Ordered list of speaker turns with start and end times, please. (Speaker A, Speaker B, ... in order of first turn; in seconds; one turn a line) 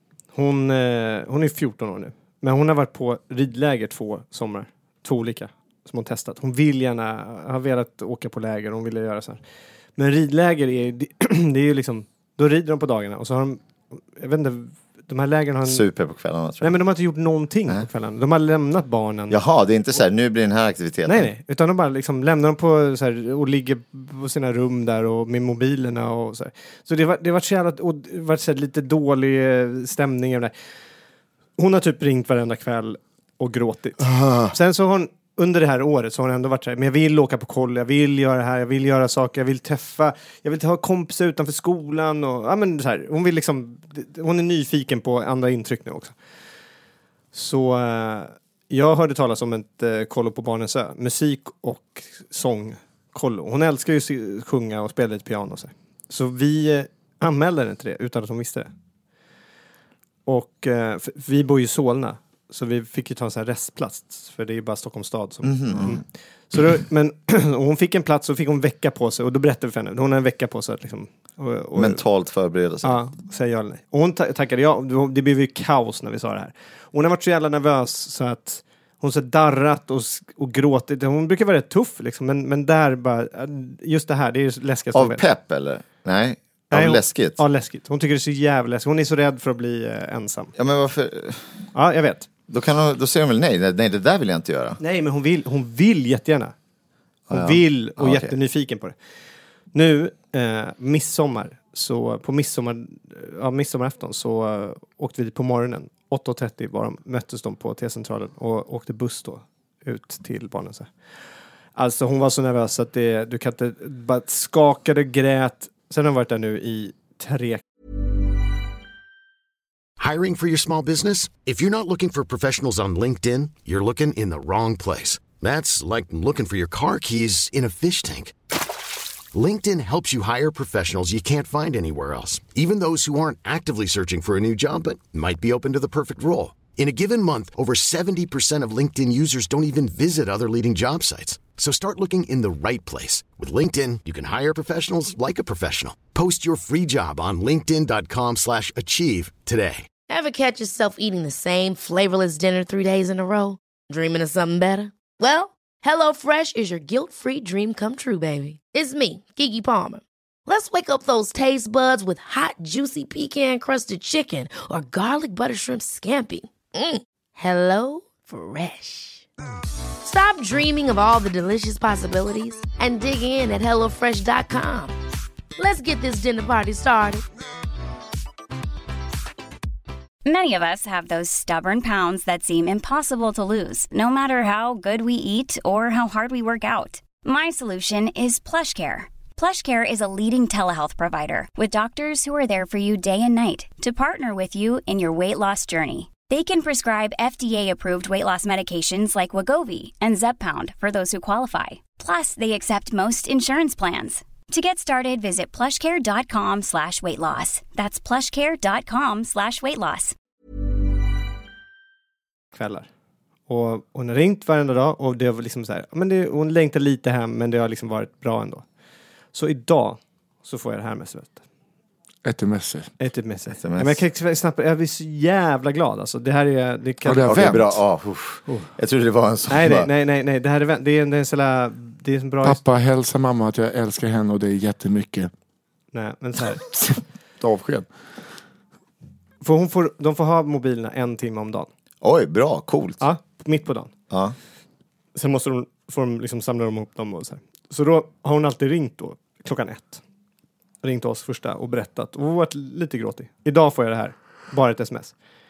Speaker A: 0.3-9.4
Speaker A: 10.0-13.6
Speaker A: 14.2-15.8
Speaker B: 15.7-16.8
Speaker A: 16.6-19.4
Speaker B: 19.3-21.3
Speaker A: 21.1-30.5
Speaker A: 31.6-34.0
Speaker B: 34.1-34.5
Speaker A: 34.5-46.1
Speaker A: 47.3-58.7
Speaker A: 60.3-72.0
Speaker B: 65.4-66.0
Speaker B: 71.8-73.0
Speaker A: 72.8-85.2
Speaker B: 84.9-87.4
Speaker A: 86.7-90.5
Speaker B: 90.6-91.5
Speaker A: 91.7-92.3
Speaker B: 92.5-94.8
Speaker A: 94.8-96.5
Speaker B: 97.3-98.3
Speaker A: 97.3-99.0
Speaker A: 99.7-110.9
Speaker A: 111.8-117.6
Speaker C: 120.0-128.3
Speaker C: 129.3-149.9
Speaker D: 150.1-169.2
Speaker D: 170.0-174.9
Speaker D: 175.6-177.2
Speaker E: 180.2-210.2
Speaker A: 212.5-212.9
Speaker A: 213.5-218.6
Speaker A: 219.3-221.4
Speaker F: 222.2-222.9
Speaker A: 223.0-227.5
Speaker B: 223.6-224.0
Speaker F: 227.0-227.7
Speaker B: 227.3-229.9
Speaker A: 229.5-232.6
Speaker F: 232.4-235.3
Speaker A: 235.9-236.7
Speaker F: 237.4-237.9
Speaker A: 239.4-241.7
Speaker B: 242.0-243.0
Speaker A: 243.0-243.9
Speaker B: 244.1-244.4
Speaker A: 245.2-250.0
Speaker A: 250.8-255.1